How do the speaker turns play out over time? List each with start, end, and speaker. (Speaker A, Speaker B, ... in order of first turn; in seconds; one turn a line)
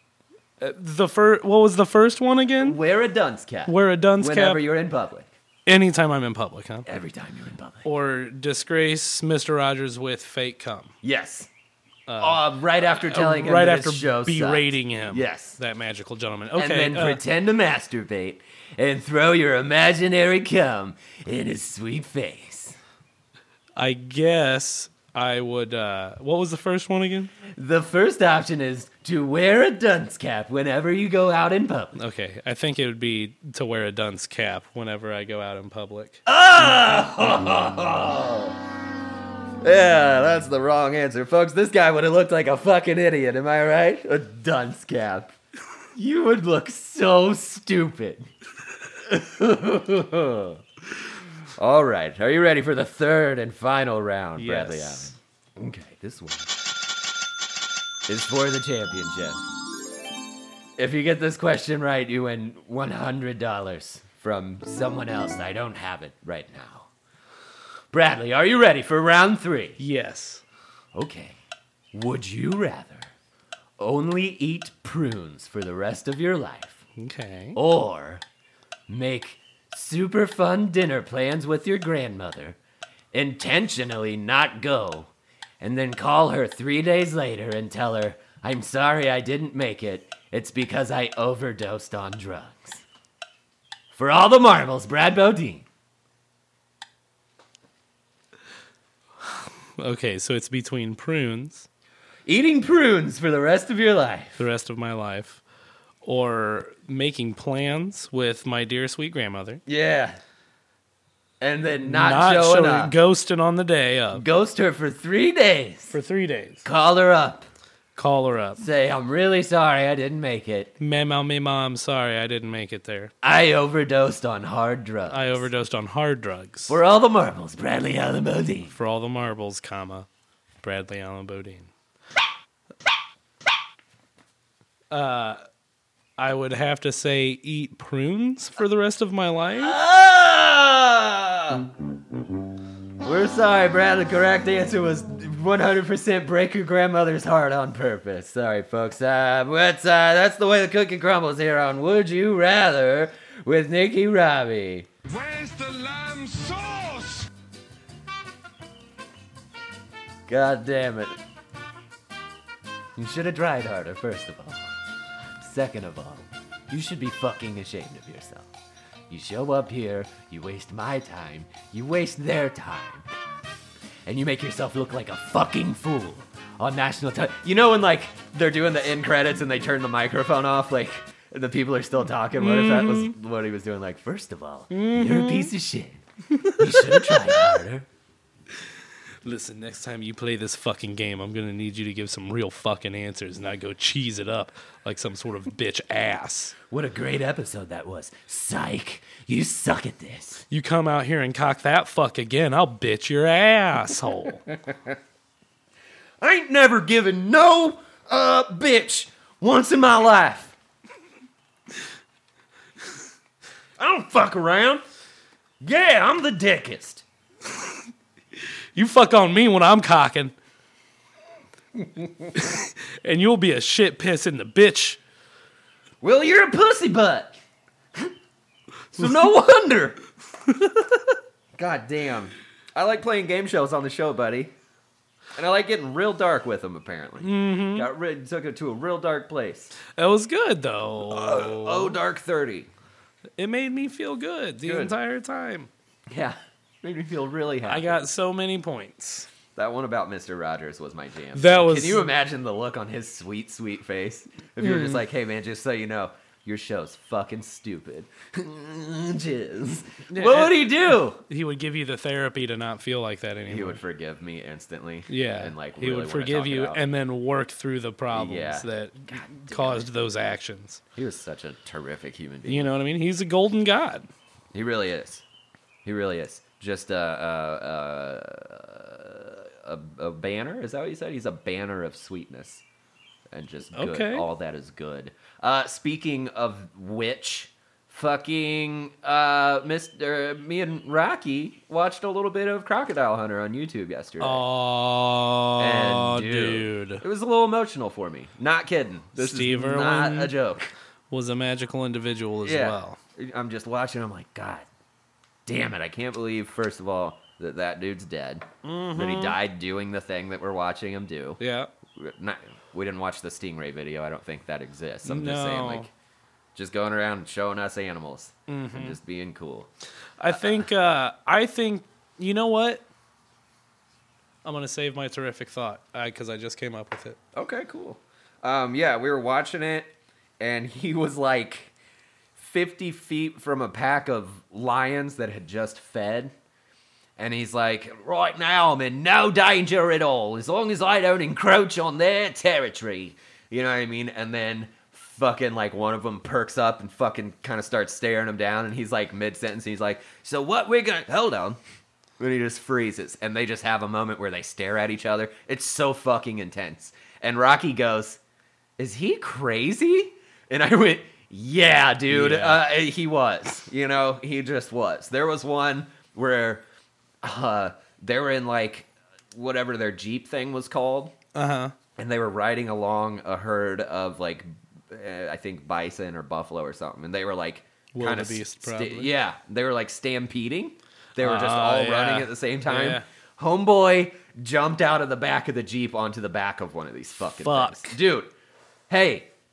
Speaker A: 0.6-2.8
Speaker B: 2.6-5.3
Speaker A: 3.7-4.7
Speaker A: 5.7-6.9
Speaker B: 6.9-7.9
Speaker A: 7.8-10.9
Speaker B: 11.0-11.5
Speaker A: 12.1-17.2
Speaker B: 12.2-15.6
Speaker B: 16.6-22.8
Speaker A: 23.8-27.3
Speaker B: 27.6-31.9
Speaker A: 32.0-36.2
Speaker B: 36.3-38.6
Speaker B: 39.6-45.4
Speaker B: 46.0-48.3
Speaker B: 49.0-50.6
Speaker B: 51.6-56.5
Speaker A: 54.4-55.2
Speaker B: 58.1-59.4
Speaker B: 60.8-66.9
Speaker B: 67.9-69.8
Speaker A: 69.8-70.4
Speaker B: 70.9-71.4
Speaker B: 71.9-73.1
Speaker B: 73.8-76.8
Speaker A: 77.0-77.6
Speaker B: 77.5-78.2
Speaker B: 78.9-82.6
Speaker B: 83.1-92.8
Speaker B: 93.9-95.7
Speaker A: 99.2-101.7
Speaker B: 102.3-104.4
Speaker A: 104.4-105.4
Speaker A: 106.0-109.6
Speaker B: 109.7-110.2
Speaker B: 111.4-112.9
Speaker A: 111.8-114.2
Speaker B: 114.1-116.0
Speaker A: 115.9-116.7
Speaker B: 116.7-117.5
Speaker A: 118.0-118.6
Speaker B: 118.6-120.7
Speaker A: 120.8-123.1
Speaker B: 123.2-125.5
Speaker A: 125.1-126.8
Speaker B: 126.7-128.7
Speaker A: 128.7-130.1
Speaker A: 130.6-131.7
Speaker A: 134.9-135.4
Speaker A: 136.2-139.7
Speaker B: 139.6-141.7
Speaker B: 143.0-154.9
Speaker C: 155.1-157.3
Speaker B: 160.3-161.2
Speaker B: 163.0-164.6
Speaker B: 165.4-168.5
Speaker B: 169.1-173.1
Speaker B: 174.1-186.0
Speaker A: 182.4-183.1
Speaker A: 184.7-185.5
Speaker A: 186.4-187.4
Speaker B: 186.6-187.9
Speaker A: 189.2-196.5
Speaker B: 196.7-200.4
Speaker A: 200.5-204.4
Speaker B: 206.2-210.6
Speaker B: 213.8-214.8
Speaker B: 215.6-217.1
Speaker A: 218.8-220.3
Speaker B: 221.8-222.5
Speaker A: 222.4-225.0
Speaker B: 226.0-227.4
Speaker B: 228.9-230.0
Speaker B: 231.6-234.5
Speaker B: 235.4-239.7
Speaker A: 237.2-237.9
Speaker A: 239.9-242.0
Speaker B: 241.0-242.7
Speaker A: 243.4-245.7
Speaker B: 244.6-244.9
Speaker B: 246.1-248.0
Speaker A: 247.7-249.3
Speaker B: 249.6-261.2
Speaker A: 251.3-252.1
Speaker A: 254.6-255.0
Speaker A: 260.1-263.8
Speaker B: 263.5-266.8
Speaker A: 265.1-270.8
Speaker B: 268.1-269.9
Speaker B: 271.0-272.7
Speaker A: 272.5-274.1
Speaker B: 274.5-275.2
Speaker B: 275.9-282.6
Speaker B: 283.3-294.4
Speaker A: 283.8-284.3
Speaker A: 294.2-297.0
Speaker B: 295.6-300.7
Speaker A: 299.2-300.4
Speaker A: 301.1-303.0
Speaker B: 302.4-304.7
Speaker B: 305.5-311.4
Speaker A: 308.6-309.4
Speaker A: 311.4-311.7
Speaker B: 311.9-315.9
Speaker A: 315.1-315.9
Speaker B: 316.6-319.7
Speaker A: 318.5-319.0
Speaker A: 320.2-322.9
Speaker A: 324.4-327.2
Speaker B: 327.4-331.7
Speaker B: 332.4-336.3
Speaker B: 337.2-351.6
Speaker B: 352.2-358.2
Speaker B: 358.8-366.6
Speaker A: 362.1-362.6
Speaker B: 367.2-371.1
Speaker A: 371.4-371.7
Speaker B: 372.0-388.3
Speaker A: 377.9-379.1
Speaker A: 381.2-383.1
Speaker A: 387.4-388.0
Speaker B: 388.9-389.3